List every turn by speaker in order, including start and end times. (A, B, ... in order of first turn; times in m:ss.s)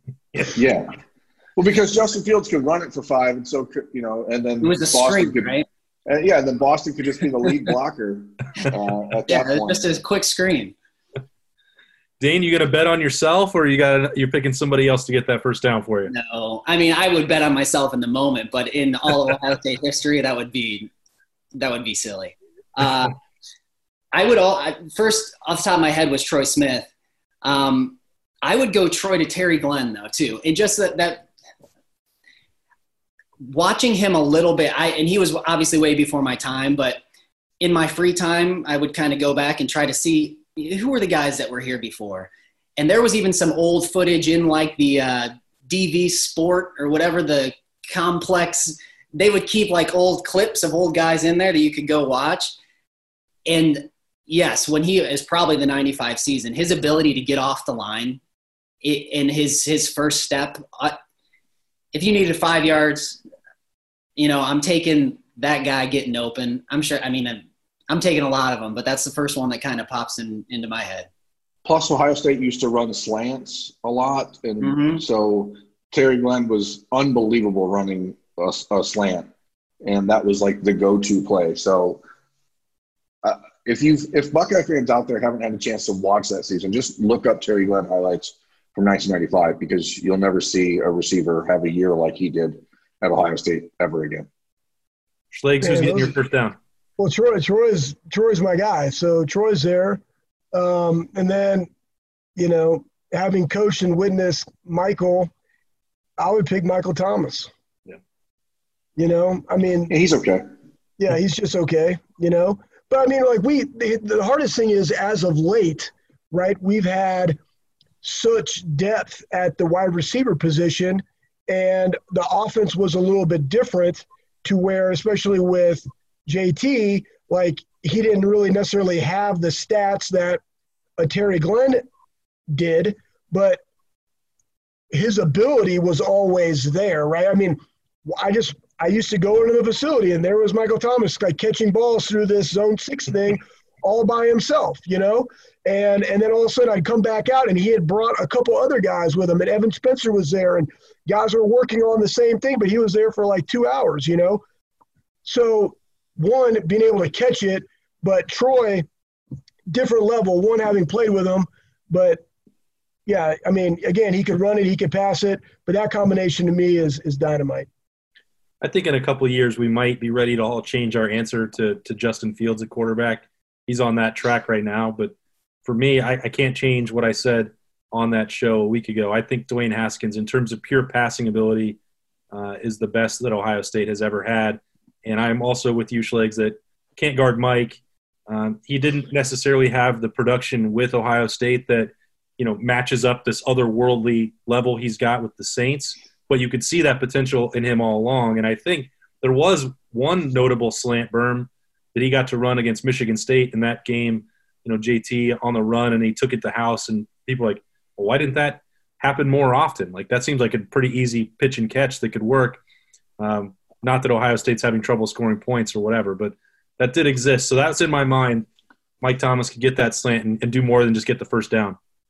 0:00.5-0:00.9 A
0:01.6-0:05.6 A
0:04.6-0:05.6 B
0:06.1-0:09.8 A
0:09.3-0:10.8 B
0:12.2-0:16.1 C
0:16.1-0:20.9 B
0:21.6-0:23.2 B
0:24.1-0:26.9 B
0:27.4-0:31.3 B
0:33.4-0:37.0 B
0:37.6-0:52.6 B
0:53.5-0:58.2 B
0:58.8-1:01.0 B
1:01.9-1:03.2 B
1:04.2-1:11.1 B
1:11.6-1:19.3 A
1:14.6-1:15.0 B
1:19.8-1:22.0 A
1:23.2-1:34.3 A
1:35.3-1:36.6 C
1:35.6-1:36.1 D
1:37.0-1:40.0 D
1:40.5-1:41.7 D
1:42.4-1:45.3 D
1:46.2-1:47.5 D
1:49.0-1:49.9 D
1:49.9-1:50.4 A
1:51.0-1:57.4 D
1:58.0-2:10.4 D
2:11.0-2:11.8 D
2:12.5-2:13.6 D
2:14.9-2:34.4 D
2:35.2-2:38.9 D
2:39.7-2:42.2 D
2:43.1-2:47.7 D
2:48.6-2:55.1 C
2:55.6-3:01.8 C
3:02.3-3:32.6 C
3:33.2-3:38.5 C
3:39.0-3:41.8 C